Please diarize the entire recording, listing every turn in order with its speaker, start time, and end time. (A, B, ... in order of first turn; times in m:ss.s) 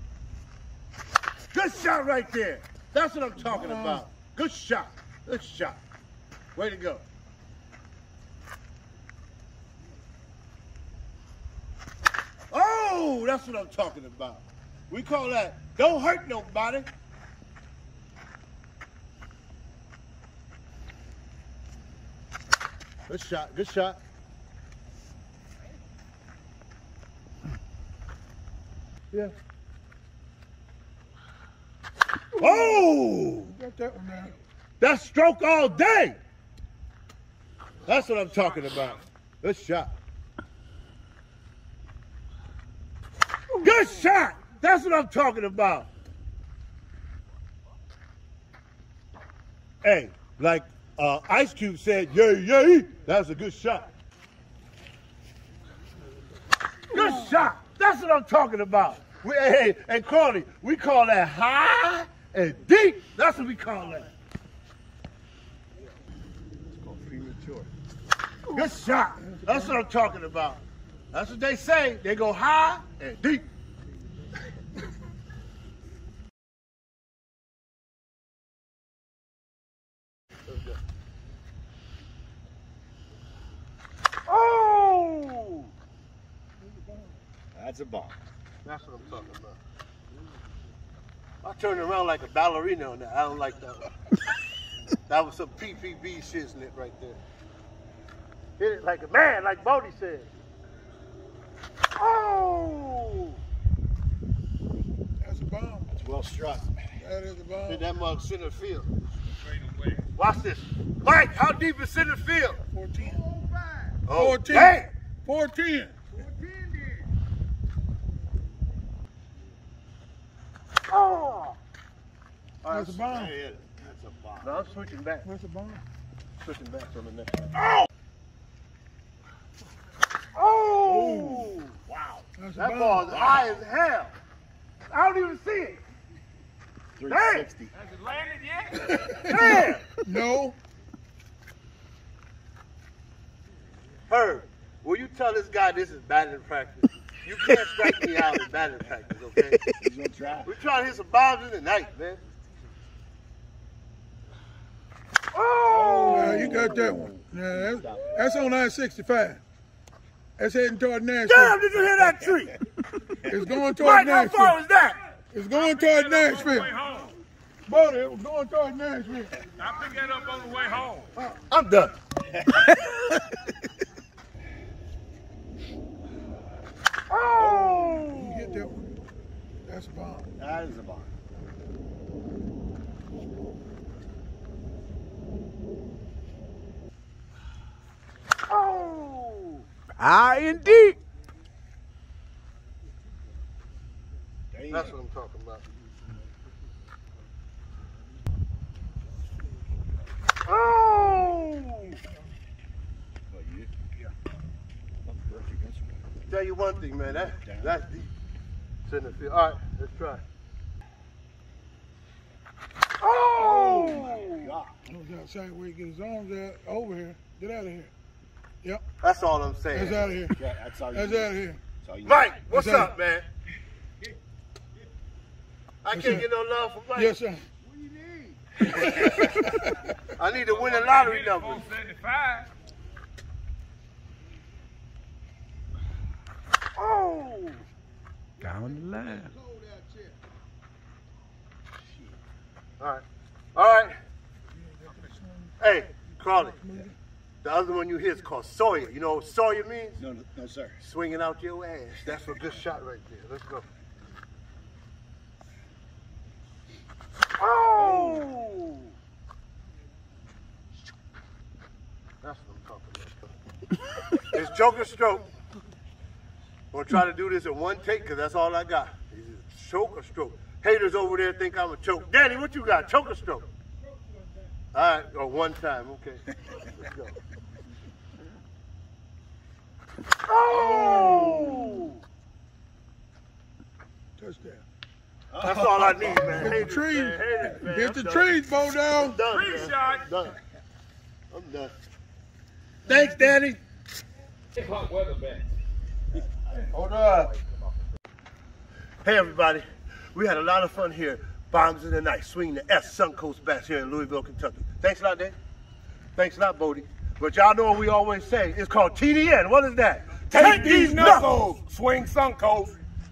0:01.5-0:05.8 A
0:03.4-0:04.0 B
0:06.5-0:07.0 A
0:12.5-0:16.9 A
0:23.1-0:24.0 A
0:32.4-0:32.8 B
0:32.4-0:33.5 A
0:33.5-0:34.4 B
0:34.8-0:36.2 A
0:37.8-0:39.9 A
0:38.3-0:39.0 C
0:43.6-0:45.9 A
0:49.8-0:53.9 A
0:56.9-1:04.1 A
1:06.8-1:07.7 A
1:08.5-1:13.5 A
1:09.2-1:09.7 B
1:20.5-1:20.8 A
1:24.2-1:25.7 A
1:27.5-1:28.2 D
1:28.6-1:29.6 A
1:31.4-1:33.9 A
1:35.0-1:37.2 A
1:38.6-1:40.3 A
1:41.9-1:43.4 A
1:45.2-1:46.0 B
1:46.0-1:47.0 D
1:47.0-1:47.8 B
1:47.7-1:48.9 A
1:49.4-1:50.0 C
1:50.2-1:52.6 A
1:52.7-1:53.2 B
1:53.9-1:54.9 A
1:54.1-1:56.0 B
1:56.3-1:56.6 A
2:00.9-2:01.6 A
2:02.6-2:03.0 A
2:02.7-2:03.3 B
2:03.0-2:04.6 D
2:04.4-2:05.3 A
2:05.2-2:05.8 B
2:06.4-2:07.5 A
2:10.3-2:11.8 A
2:10.8-2:11.5 B
2:11.9-2:12.2 D
2:12.4-2:13.2 B
2:12.6-2:14.1 A
2:14.9-2:15.8 A
2:17.0-2:17.7 D
2:17.1-2:17.5 A
2:17.8-2:19.1 C
2:19.0-2:20.6 B
2:19.2-2:19.9 A
2:24.1-2:29.6 A
2:29.7-2:30.5 D
2:30.4-2:32.2 A
2:35.3-2:36.8 A
2:35.7-2:38.2 D
2:36.1-2:39.4 B
2:40.4-2:41.6 B
2:41.2-2:42.5 A
2:43.3-2:44.6 B
2:43.7-2:45.0 A
2:45.3-2:46.7 B
2:45.5-2:47.1 C
2:47.7-2:49.4 B
2:49.6-2:51.1 C
2:51.2-2:51.9 A
2:57.1-2:58.7 A
2:57.4-2:57.9 D
2:57.9-2:59.0 B
2:59.6-3:00.3 B
3:00.4-3:01.1 D
3:08.5-3:09.6 A
3:10.0-3:11.0 E
3:14.5-3:14.9 D
3:14.7-3:15.6 A
3:20.4-3:22.0 A
3:23.4-3:24.1 D
3:25.0-3:26.0 D
3:26.3-3:28.1 A
3:27.4-3:27.8 D
3:28.8-3:30.2 A
3:33.0-3:34.5 A
3:33.4-3:34.8 D
3:34.9-3:37.9 B
3:39.0-3:40.1 A
3:39.7-3:40.4 B
3:40.3-3:42.4 D
3:40.9-3:41.6 B
3:42.0-3:43.3 A
3:42.5-3:42.9 B
3:45.8-3:47.2 A
3:45.9-3:46.3 B
3:46.9-3:47.4 B
3:47.7-3:49.4 A
3:48.7-3:49.7 B
3:50.2-3:51.7 A
3:50.4-3:52.5 C
3:56.7-3:57.6 A
3:58.4-3:59.3 E
3:59.4-4:00.0 A
4:02.8-4:04.0 A
4:04.8-4:05.5 B
4:05.6-4:06.6 A
4:06.6-4:06.9 B
4:07.4-4:10.0 A
4:10.0-4:10.8 D
4:10.8-4:13.6 A
4:17.4-4:18.9 A
4:17.7-4:18.3 D
4:22.2-4:23.3 A
4:24.1-4:25.3 A
4:26.7-4:33.4 A
4:34.7-4:37.1 A
4:40.2-4:42.0 A
4:40.6-4:41.7 D
4:44.2-4:44.6 B
4:45.3-4:48.4 A
4:45.7-4:49.2 B
4:48.9-4:50.4 A
4:49.3-4:50.1 C
4:51.3-4:51.7 A
4:52.8-4:53.6 A
4:54.6-4:55.5 C
4:56.6-4:57.4 D
4:56.8-4:57.3 A
4:59.0-5:05.4 A
5:06.2-5:11.3 A
5:10.3-5:12.8 C